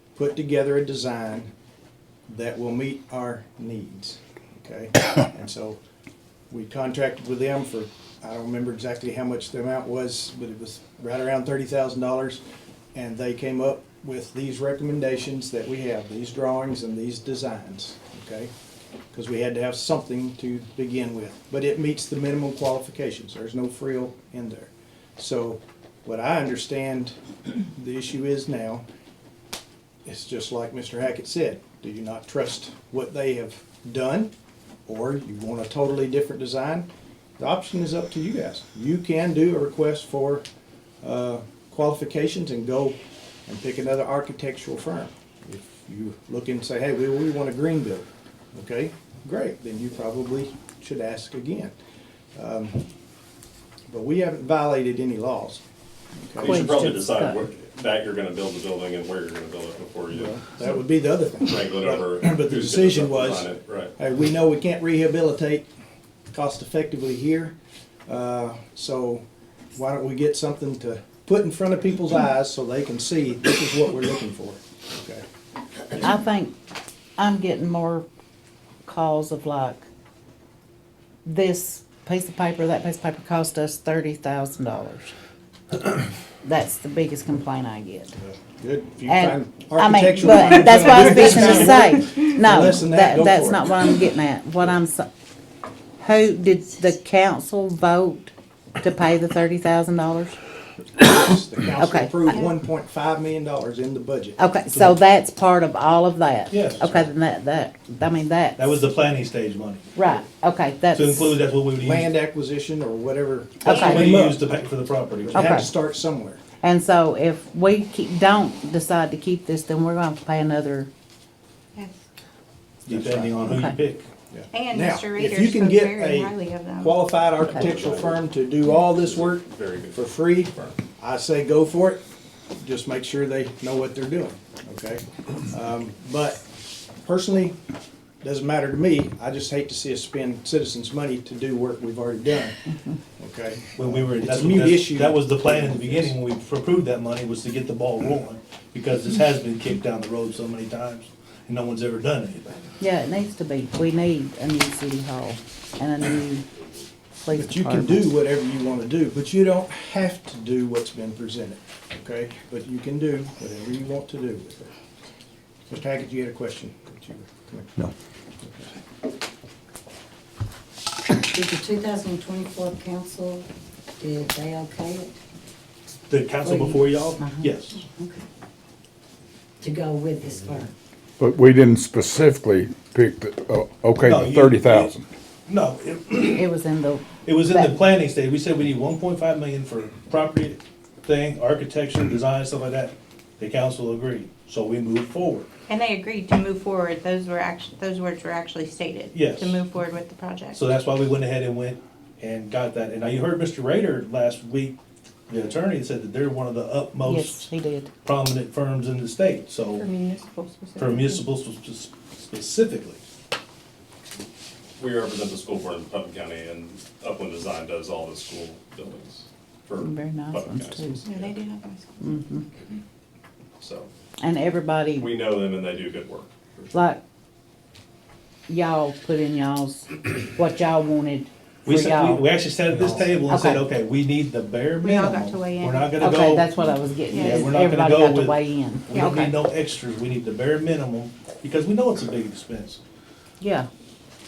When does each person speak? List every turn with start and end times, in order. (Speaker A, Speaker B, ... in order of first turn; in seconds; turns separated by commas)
Speaker A: 0.1-1.5, Speaker A: 2.3-5.8, Speaker A: 6.5-12.4, Speaker A: 12.9-18.5, Speaker A: 19.1-28.8, Speaker A: 30.0-34.3, Speaker A: 34.9-36.9, Speaker A: 37.4-40.4, Speaker A: 41.0-51.7, Speaker A: 52.3-52.9, Speaker A: 53.9-55.6, Speaker A: 56.2-56.6, Speaker B: 56.4-60.4, Speaker C: 56.4-57.4, Speaker A: 60.1-65.7, Speaker B: 61.4-63.9, Speaker A: 66.3-67.5, Speaker A: 68.1-75.2, Speaker C: 76.0-76.5, Speaker C: 77.2-78.1, Speaker C: 78.8-79.8, Speaker C: 81.2-85.1, Speaker C: 86.4-88.2, Speaker A: 88.2-93.8, Speaker C: 89.0-95.1, Speaker C: 96.0-100.3, Speaker A: 101.0-105.0, Speaker C: 101.8-102.4, Speaker C: 104.4-108.8, Speaker D: 106.5-107.0, Speaker D: 108.5-110.0, Speaker C: 109.9-111.4, Speaker D: 110.9-112.1, Speaker A: 111.8-114.4, Speaker D: 113.6-115.5, Speaker C: 113.7-114.1, Speaker A: 115.2-116.4, Speaker C: 115.3-115.7, Speaker C: 116.6-120.9, Speaker D: 122.8-124.1, Speaker A: 122.9-123.6, Speaker C: 123.5-123.7, Speaker A: 124.3-132.0, Speaker E: 124.5-127.0, Speaker B: 127.4-128.2, Speaker B: 128.9-130.8, Speaker A: 132.6-136.4, Speaker A: 137.0-137.6, Speaker A: 138.2-142.6, Speaker A: 143.2-146.1, Speaker D: 143.8-152.6, Speaker C: 152.8-156.4, Speaker C: 157.2-158.1, Speaker A: 157.3-164.7, Speaker A: 165.7-167.8, Speaker A: 168.4-168.7, Speaker F: 171.3-173.4, Speaker F: 174.0-175.1, Speaker D: 176.1-177.8, Speaker C: 177.2-177.5, Speaker F: 179.6-180.7, Speaker G: 181.2-185.1, Speaker D: 184.0-184.9, Speaker D: 185.5-186.5, Speaker C: 186.3-187.8, Speaker D: 187.2-195.5, Speaker E: 195.7-200.6, Speaker D: 199.1-199.6, Speaker D: 200.5-207.5, Speaker C: 207.0-207.9, Speaker D: 208.0-209.8, Speaker E: 209.7-211.2, Speaker D: 210.8-213.0, Speaker B: 214.8-221.4, Speaker C: 219.8-221.0, Speaker E: 221.0-222.8, Speaker C: 222.0-222.4, Speaker B: 223.6-223.9, Speaker C: 224.2-225.1, Speaker B: 225.0-226.7, Speaker C: 226.7-227.0, Speaker C: 228.5-232.3, Speaker D: 231.6-236.5, Speaker C: 233.2-233.6, Speaker E: 234.8-236.0, Speaker C: 236.0-239.3, Speaker E: 237.1-237.5, Speaker D: 237.1-242.8, Speaker E: 238.9-239.3, Speaker C: 243.4-243.7